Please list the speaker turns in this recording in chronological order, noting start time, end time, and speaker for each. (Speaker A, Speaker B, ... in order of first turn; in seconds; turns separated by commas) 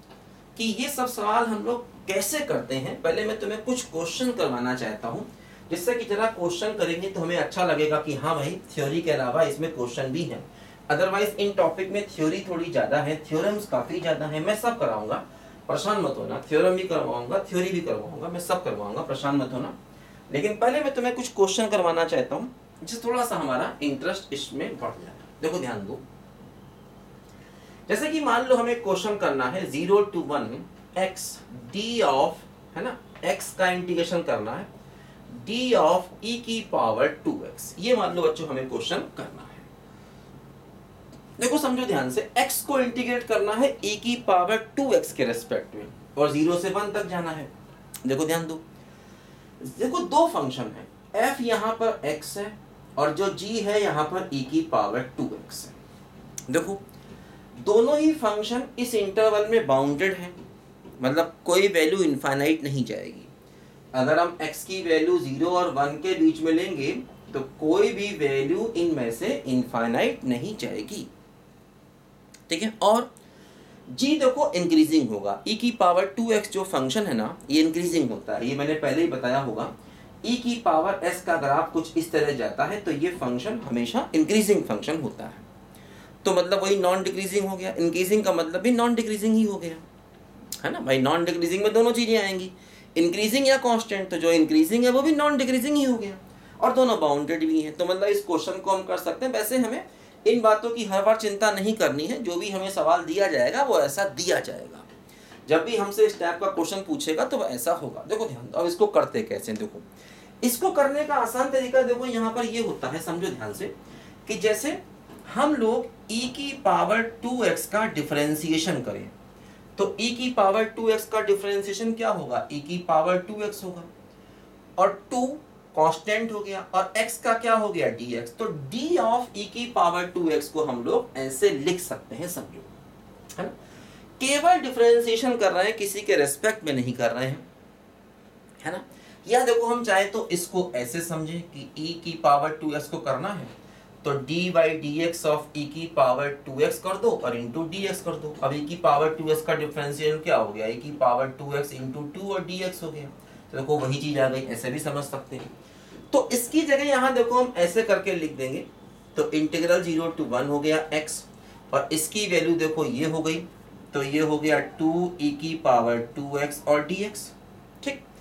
Speaker A: 0.6-19.8, Speaker A: 20.3-26.0, Speaker A: 27.9-34.7, Speaker A: 35.3-39.6, Speaker A: 41.4-47.5, Speaker A: 48.0-48.6, Speaker A: 49.6-55.7, Speaker A: 56.5-56.8, Speaker A: 57.6-60.3, Speaker A: 61.0-63.3, Speaker A: 63.9-71.1, Speaker A: 72.5-73.1, Speaker A: 73.9-79.7, Speaker A: 80.2-85.4, Speaker A: 86.2-89.8, Speaker A: 90.6-104.9, Speaker A: 105.5-109.8, Speaker A: 110.4-113.7, Speaker A: 114.2-119.1, Speaker A: 119.8-123.9, Speaker A: 124.8-132.7, Speaker A: 134.2-137.4, Speaker A: 138.6-143.5, Speaker A: 144.0-155.5, Speaker A: 156.1-168.0